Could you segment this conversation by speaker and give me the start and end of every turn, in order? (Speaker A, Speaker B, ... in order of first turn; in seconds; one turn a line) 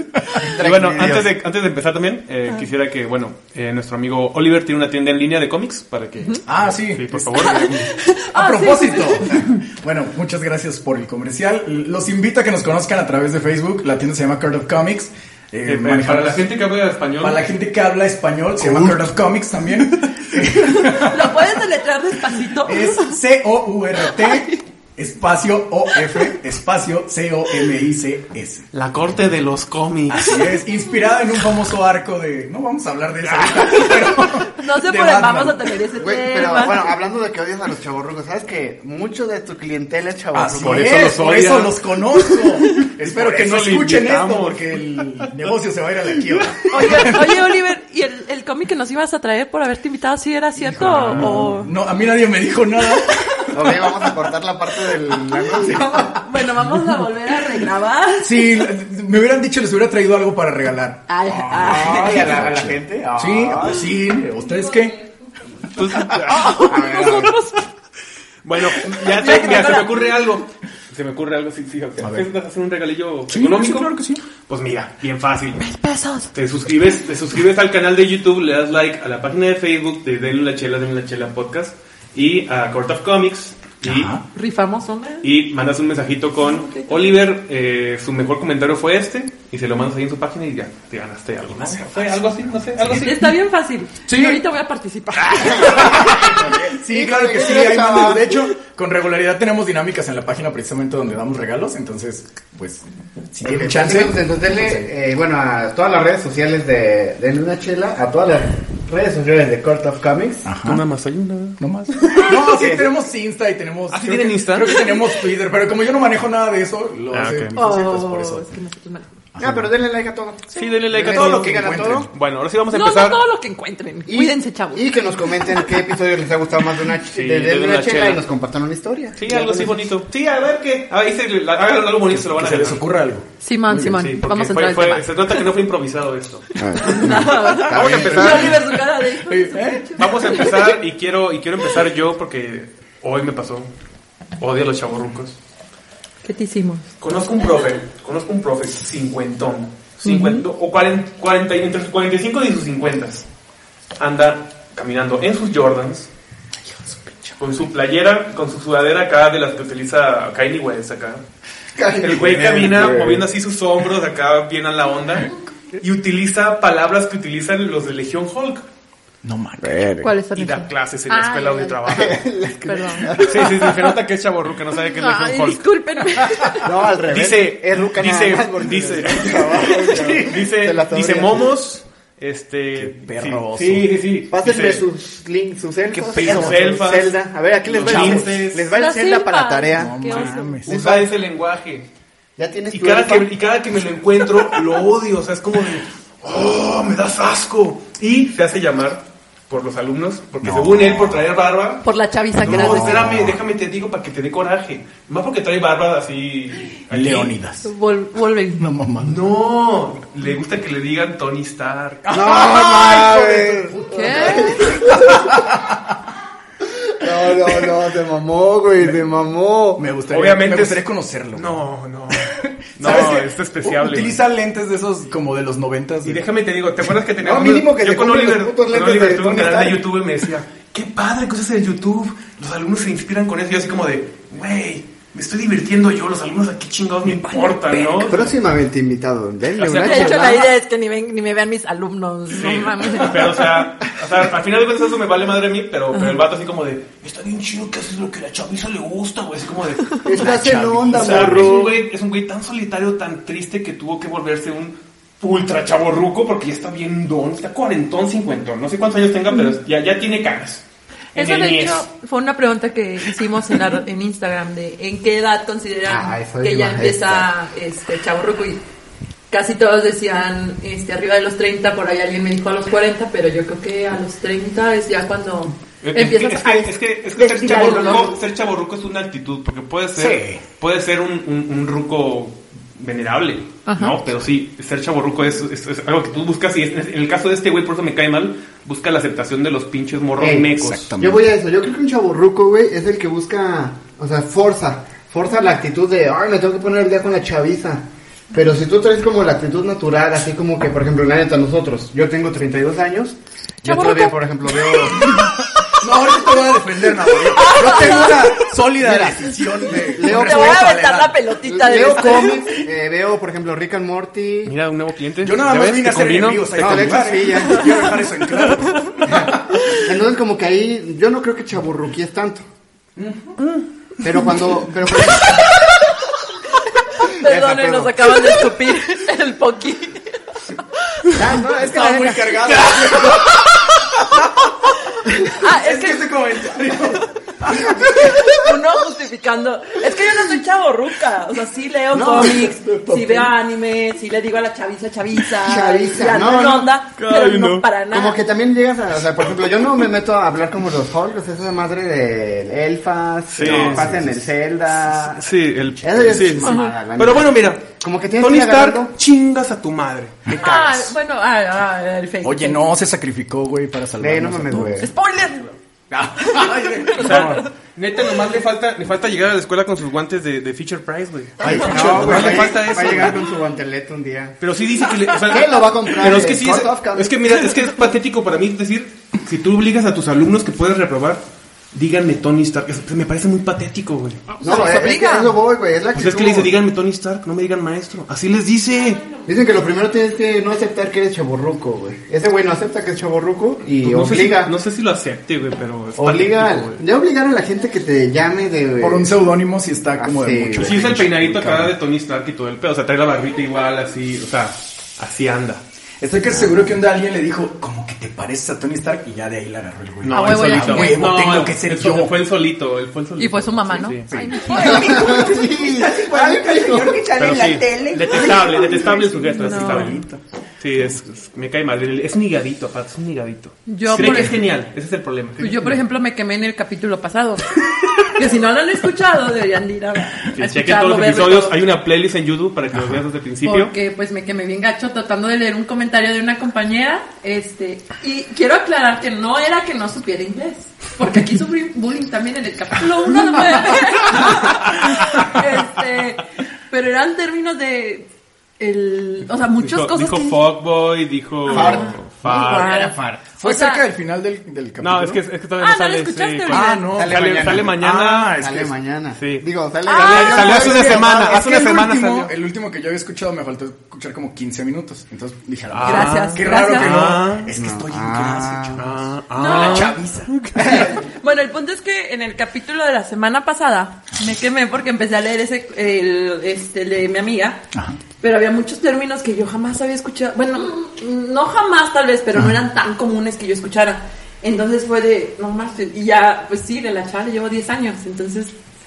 Speaker A: 0.4-1.3
Speaker B: 0.5-7.8
Speaker C: 6.5-16.5
Speaker D: 7.3-9.4
Speaker B: 15.7-17.5
Speaker C: 17.2-21.5
Speaker B: 18.6-19.0
Speaker D: 20.7-23.1
Speaker C: 22.6-28.7
Speaker D: 24.2-24.6
Speaker B: 28.7-30.5
Speaker C: 30.1-35.6
Speaker B: 33.2-33.7
Speaker D: 33.7-37.0
Speaker A: 36.0-41.0
Speaker C: 40.3-47.3
Speaker B: 40.5-41.8
Speaker B: 42.3-45.3
Speaker D: 46.7-51.7
Speaker C: 50.6-54.3
Speaker B: 51.0-51.4
Speaker A: 53.5-56.1
Speaker C: 54.9-56.0
Speaker D: 55.6-58.5
Speaker C: 58.2-65.0
Speaker D: 61.1-62.2
Speaker A: 61.5-63.9
Speaker B: 65.7-66.7
Speaker C: 65.9-66.2
Speaker D: 66.3-67.7
Speaker A: 66.5-67.4
Speaker B: 68.4-73.9
Speaker D: 69.0-70.1
Speaker C: 72.0-72.3
Speaker C: 73.3-74.2
Speaker B: 74.5-75.7
Speaker D: 75.7-76.3
Speaker B: 76.3-84.2
Speaker C: 83.8-84.2
Speaker D: 84.3-85.3
Speaker B: 85.2-93.3
Speaker D: 86.4-87.1
Speaker C: 92.8-93.3
Speaker D: 92.9-96.1
Speaker C: 94.1-94.4
Speaker C: 95.3-104.9
Speaker A: 95.6-98.4
Speaker A: 103.4-110.5
Speaker C: 110.5-110.8
Speaker B: 110.6-111.6
Speaker C: 111.6-118.5
Speaker D: 112.0-112.3
Speaker A: 112.1-112.9
Speaker B: 113.9-114.8
Speaker B: 117.1-117.5
Speaker D: 117.5-119.1
Speaker C: 119.3-119.7
Speaker A: 119.4-122.1
Speaker B: 120.5-123.2
Speaker C: 121.0-122.1
Speaker D: 122.7-125.7
Speaker A: 124.1-129.9
Speaker B: 127.1-128.2
Speaker B: 129.2-132.8
Speaker C: 132.2-133.9
Speaker D: 133.4-135.4
Speaker B: 133.8-138.6
Speaker D: 136.6-140.7
Speaker A: 136.6-138.6
Speaker C: 137.8-140.7
Speaker B: 140.0-143.7
Speaker B: 144.4-145.4
Speaker D: 146.2-146.9
Speaker B: 147.0-153.3
Speaker D: 150.0-150.4
Speaker B: 154.0-156.1
Speaker C: 156.7-157.4
Speaker B: 157.4-161.2
Speaker A: 161.8-163.2
Speaker B: 162.0-168.7
Speaker C: 169.2-170.1
Speaker A: 169.6-170.1
Speaker D: 170.0-172.1
Speaker B: 170.3-172.2
Speaker A: 171.9-173.6
Speaker D: 172.6-173.7
Speaker B: 173.2-175.6
Speaker D: 175.0-176.7
Speaker A: 176.6-181.5
Speaker B: 177.0-184.8
Speaker C: 182.8-184.0
Speaker A: 184.3-191.1
Speaker C: 185.9-186.7
Speaker B: 186.1-188.7
Speaker C: 187.8-188.4
Speaker D: 188.7-190.6
Speaker C: 189.7-190.7
Speaker B: 190.1-191.9
Speaker A: 192.4-193.3
Speaker B: 192.7-201.8
Speaker C: 200.4-201.3
Speaker D: 201.8-203.1
Speaker C: 202.4-203.4
Speaker B: 202.4-207.4
Speaker C: 206.9-207.7
Speaker D: 207.6-208.7
Speaker C: 208.6-209.3
Speaker B: 209.0-212.2
Speaker C: 212.1-215.9
Speaker A: 212.1-215.3
Speaker D: 213.8-215.0
Speaker A: 216.8-219.8
Speaker C: 219.8-221.6
Speaker B: 220.1-224.2
Speaker C: 222.1-226.2
Speaker B: 226.0-238.4
Speaker A: 227.2-229.8
Speaker C: 237.1-237.8
Speaker A: 238.0-240.5
Speaker B: 239.6-240.3
Speaker D: 239.7-243.4
Speaker B: 242.3-260.6
Speaker A: 250.0-251.7
Speaker C: 250.1-251.6
Speaker B: 261.1-261.8
Speaker D: 261.1-268.6
Speaker A: 265.9-267.3
Speaker D: 269.3-278.2
Speaker B: 275.8-290.9
Speaker C: 280.0-280.4
Speaker D: 283.7-284.0
Speaker A: 290.2-305.2
Speaker C: 290.6-291.3
Speaker D: 303.6-304.2
Speaker C: 304.9-311.2
Speaker D: 307.1-308.2
Speaker A: 308.8-310.7
Speaker D: 309.9-312.5
Speaker A: 311.4-314.5
Speaker B: 314.4-317.7
Speaker C: 315.2-319.6
Speaker A: 316.6-317.9
Speaker A: 319.0-322.5
Speaker C: 323.0-323.2
Speaker B: 323.4-323.6
Speaker A: 324.0-325.5
Speaker D: 327.0-330.2
Speaker A: 327.1-328.4
Speaker A: 331.1-332.7
Speaker C: 331.4-333.5
Speaker C: 334.1-334.5
Speaker C: 335.1-338.4
Speaker D: 335.3-336.1
Speaker D: 337.7-348.2
Speaker A: 341.9-342.5
Speaker C: 342.1-343.3
Speaker A: 345.4-346.7
Speaker B: 347.0-347.7
Speaker A: 347.9-355.3
Speaker B: 353.3-353.9
Speaker C: 353.4-354.3
Speaker B: 355.0-360.3
Speaker A: 355.8-358.9
Speaker C: 360.3-360.9
Speaker D: 360.4-362.6
Speaker C: 362.2-364.9
Speaker A: 364.0-364.9
Speaker D: 364.6-365.6
Speaker C: 365.9-367.4
Speaker D: 366.2-367.5
Speaker B: 367.0-373.3
Speaker C: 371.4-373.2
Speaker A: 371.4-374.4
Speaker B: 374.4-381.2
Speaker A: 375.2-377.3
Speaker B: 381.7-384.4
Speaker D: 384.3-385.4
Speaker A: 384.4-386.5
Speaker B: 385.9-389.0
Speaker A: 389.2-394.5
Speaker B: 393.8-396.8
Speaker A: 396.0-399.1
Speaker C: 398.8-401.8
Speaker A: 400.0-400.9
Speaker B: 400.6-405.6
Speaker C: 406.0-412.2
Speaker B: 410.0-414.1
Speaker D: 410.1-411.0
Speaker D: 413.2-415.3
Speaker C: 414.1-420.2
Speaker A: 414.5-417.0
Speaker B: 417.2-425.8
Speaker D: 419.4-420.0
Speaker D: 423.7-424.4
Speaker C: 423.9-424.3
Speaker D: 425.4-431.6
Speaker B: 430.4-433.7
Speaker C: 432.7-433.0
Speaker D: 433.4-448.1
Speaker D: 448.6-450.4
Speaker B: 449.6-452.8
Speaker A: 451.4-453.2
Speaker D: 451.5-453.9
Speaker C: 453.4-455.2
Speaker B: 454.8-458.4
Speaker D: 455.6-456.9
Speaker C: 456.5-458.7
Speaker A: 456.9-461.7
Speaker B: 459.2-462.3
Speaker D: 459.9-460.4
Speaker C: 460.1-470.7
Speaker B: 465.7-467.5
Speaker D: 465.8-467.0
Speaker A: 467.5-468.9
Speaker B: 468.8-470.9
Speaker D: 469.3-470.0
Speaker D: 470.6-477.6
Speaker C: 477.7-478.0
Speaker D: 478.2-488.6